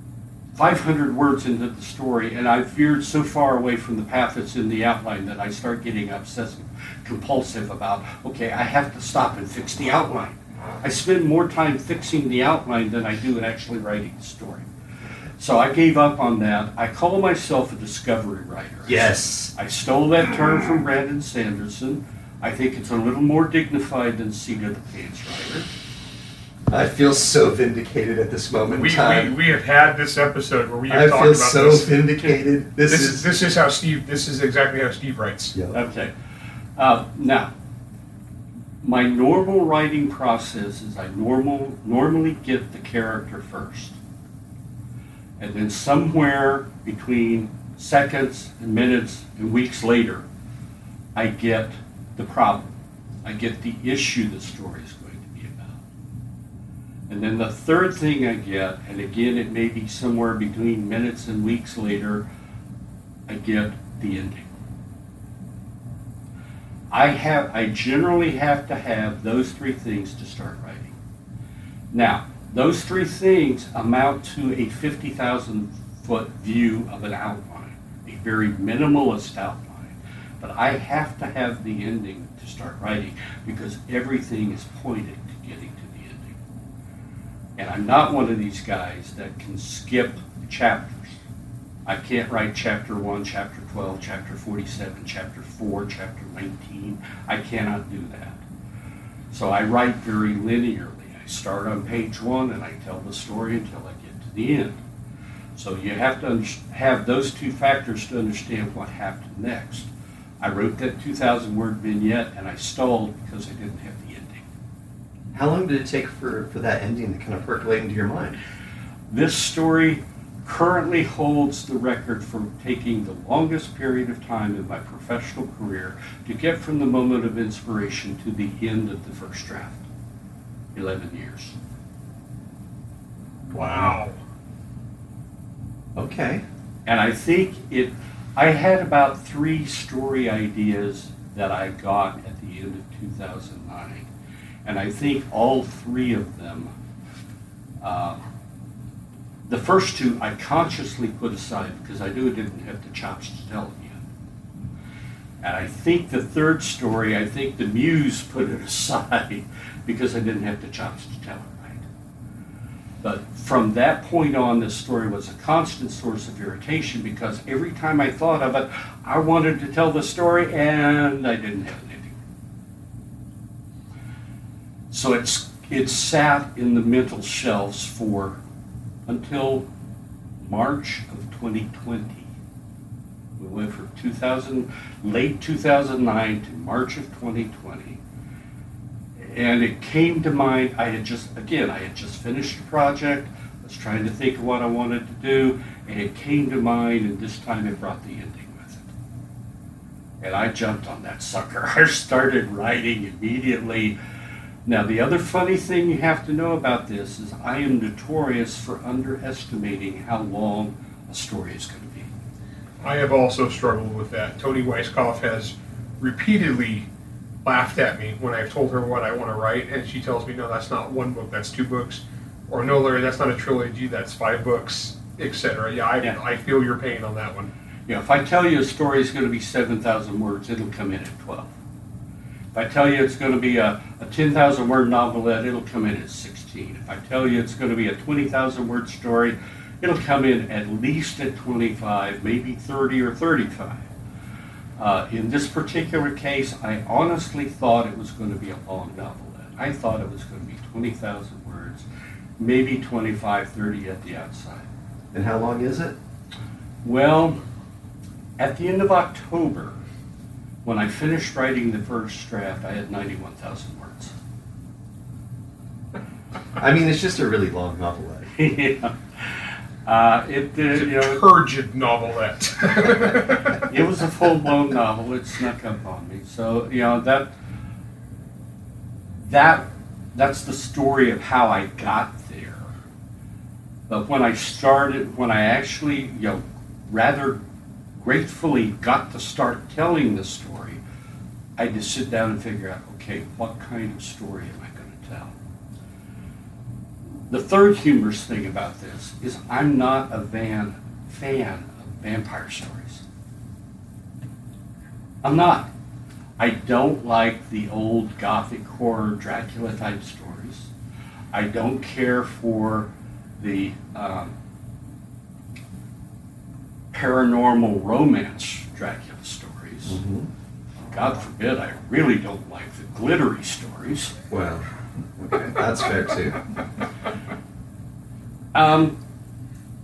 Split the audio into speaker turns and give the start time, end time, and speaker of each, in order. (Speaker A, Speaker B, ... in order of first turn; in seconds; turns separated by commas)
Speaker A: 0.5-14.7, Speaker A: 15.4-25.7, Speaker B: 18.9-19.5, Speaker B: 26.7-29.4, Speaker C: 28.7-31.9, Speaker B: 30.9-33.2, Speaker C: 32.9-35.5, Speaker B: 35.5-35.8, Speaker A: 35.7-36.1, Speaker A: 36.8-37.5, Speaker A: 38.8-44.0, Speaker A: 45.4-50.2, Speaker A: 51.1-55.8, Speaker A: 57.1-62.2, Speaker A: 63.3-64.5, Speaker A: 66.9-71.0, Speaker A: 71.9-86.4, Speaker A: 87.6-91.2, Speaker A: 91.8-98.4, Speaker A: 99.3-104.8, Speaker A: 105.5-109.9, Speaker A: 110.4-114.5, Speaker B: 115.3-118.4, Speaker A: 119.1-129.8, Speaker A: 130.7-131.6, Speaker B: 133.5-134.0, Speaker C: 133.5-134.1, Speaker B: 135.9-136.4, Speaker A: 136.8-144.1, Speaker A: 144.6-146.7, Speaker A: 147.8-148.2, Speaker A: 149.5-154.0, Speaker A: 155.4-161.8, Speaker A: 163.0-172.2, Speaker A: 174.9-178.4, Speaker A: 179.1-179.6, Speaker A: 180.4-182.3, Speaker A: 183.4-188.0, Speaker A: 189.2-198.9, Speaker A: 200.2-203.9, Speaker A: 204.7-212.1, Speaker C: 212.8-216.9, Speaker C: 217.4-227.5, Speaker A: 227.9-231.5, Speaker A: 232.5-243.9, Speaker A: 244.8-251.8, Speaker A: 252.4-254.7, Speaker B: 255.1-255.9, Speaker A: 256.8-257.4, Speaker A: 258.4-259.8, Speaker A: 260.6-264.1, Speaker B: 266.6-268.3, Speaker A: 268.3-271.2, Speaker C: 270.7-273.6, Speaker A: 273.5-277.3, Speaker A: 279.2-282.7, Speaker A: 283.9-287.4, Speaker A: 288.0-290.8, Speaker A: 291.6-295.3, Speaker A: 297.3-303.0, Speaker A: 305.2-305.7, Speaker A: 306.4-310.7, Speaker A: 311.3-314.3, Speaker A: 316.9-320.0, Speaker B: 319.9-320.3, Speaker A: 320.9-324.1, Speaker B: 324.3-326.4, Speaker A: 328.5-329.0